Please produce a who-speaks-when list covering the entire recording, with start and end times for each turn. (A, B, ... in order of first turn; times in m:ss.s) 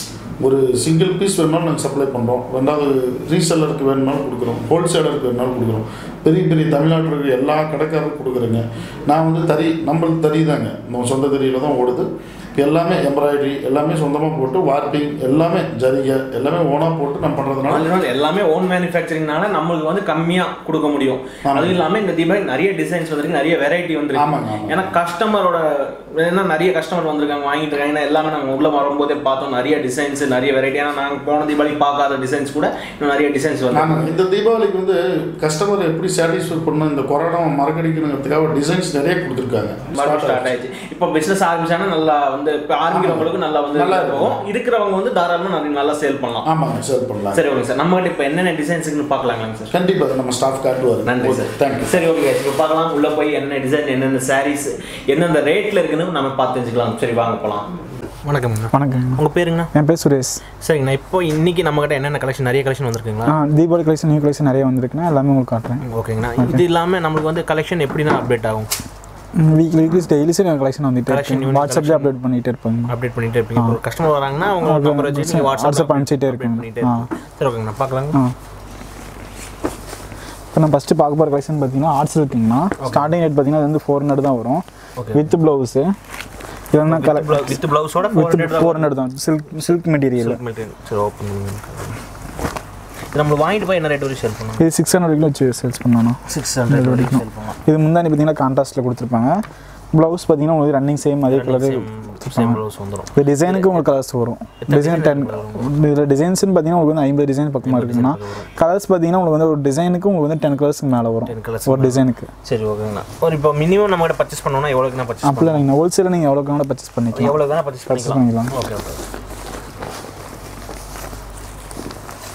0:00.4-0:17.9 A
0:17.6-0:34.0 B
0:21.4-0:21.8 A
0:24.2-0:25.0 A
0:33.7-0:40.6 A
0:39.9-0:46.5 B
0:42.9-0:44.4 A
0:46.4-0:47.4 A
0:47.3-0:49.7 B
0:49.7-0:51.9 A
0:51.0-0:57.7 B
0:58.2-0:59.7 B
0:58.7-1:00.4 C
1:00.6-1:03.4 B
1:03.3-1:05.8 C
1:05.8-1:08.7 B
1:06.4-1:06.6 C
1:09.4-1:12.9 C
1:11.1-1:12.1 B
1:12.9-1:18.2 B
1:14.6-1:17.1 C
1:20.5-1:25.9 C
1:22.8-1:23.1 B
1:25.0-1:25.3 B
1:26.7-1:30.4 C
1:26.8-1:29.0 B
1:30.0-1:32.0 B
1:33.1-1:34.6 B
1:34.6-1:39.4 C
1:36.3-1:37.6 B
1:39.9-1:42.6 C
1:41.3-1:44.0 B
1:43.1-1:52.3 C
1:44.6-1:45.7 B
1:47.6-1:48.5 B
1:51.3-1:55.7 B
1:55.2-1:57.4 C
1:57.1-1:59.0 B
1:57.9-1:58.5 C